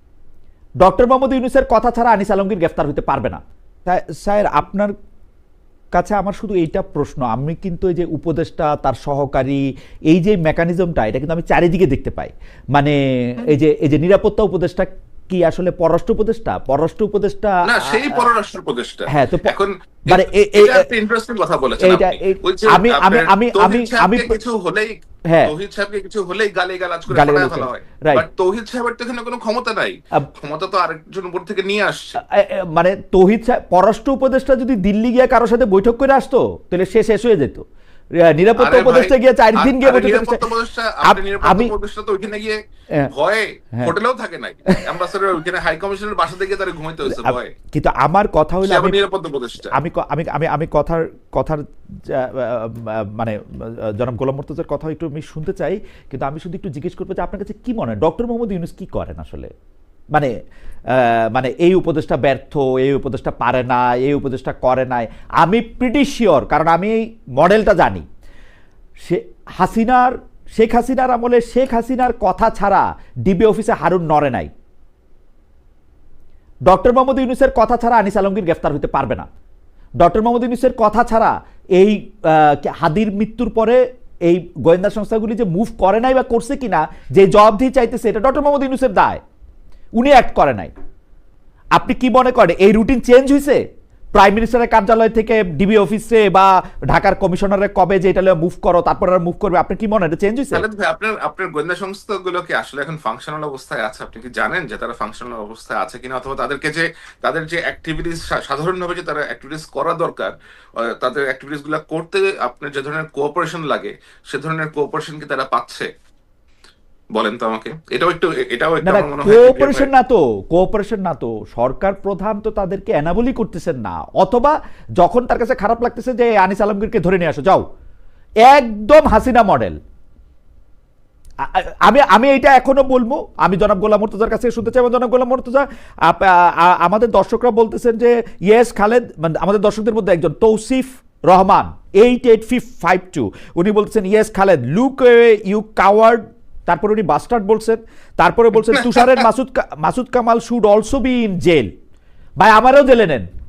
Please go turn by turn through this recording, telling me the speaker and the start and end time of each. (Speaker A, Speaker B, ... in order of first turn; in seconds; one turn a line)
Speaker A: 0.8-4.9
Speaker A: 5.9-18.3
Speaker B: 17.6-32.2
Speaker A: 19.1-19.6
Speaker A: 20.1-20.9
Speaker A: 21.8-24.3
Speaker A: 27.1-28.2
Speaker A: 32.2-37.6
Speaker A: 38.2-40.5
Speaker B: 38.6-47.5
Speaker A: 41.0-41.7
Speaker A: 47.1-49.0
Speaker B: 48.6-49.7
Speaker A: 49.7-59.5
Speaker A: 60.9-68.0
Speaker A: 69.0-74.5
Speaker A: 76.7-79.3
Speaker A: 80.0-89.2
Speaker A: 90.0-90.7
Speaker A: 91.7-93.6
Speaker A: 94.1-100.6
Speaker B: 100.5-115.9
Speaker B: 117.1-119.9
Speaker A: 118.8-127.6
Speaker A: 128.4-129.8
Speaker A: 131.4-151.7
Speaker B: 148.8-149.2
Speaker A: 152.4-153.3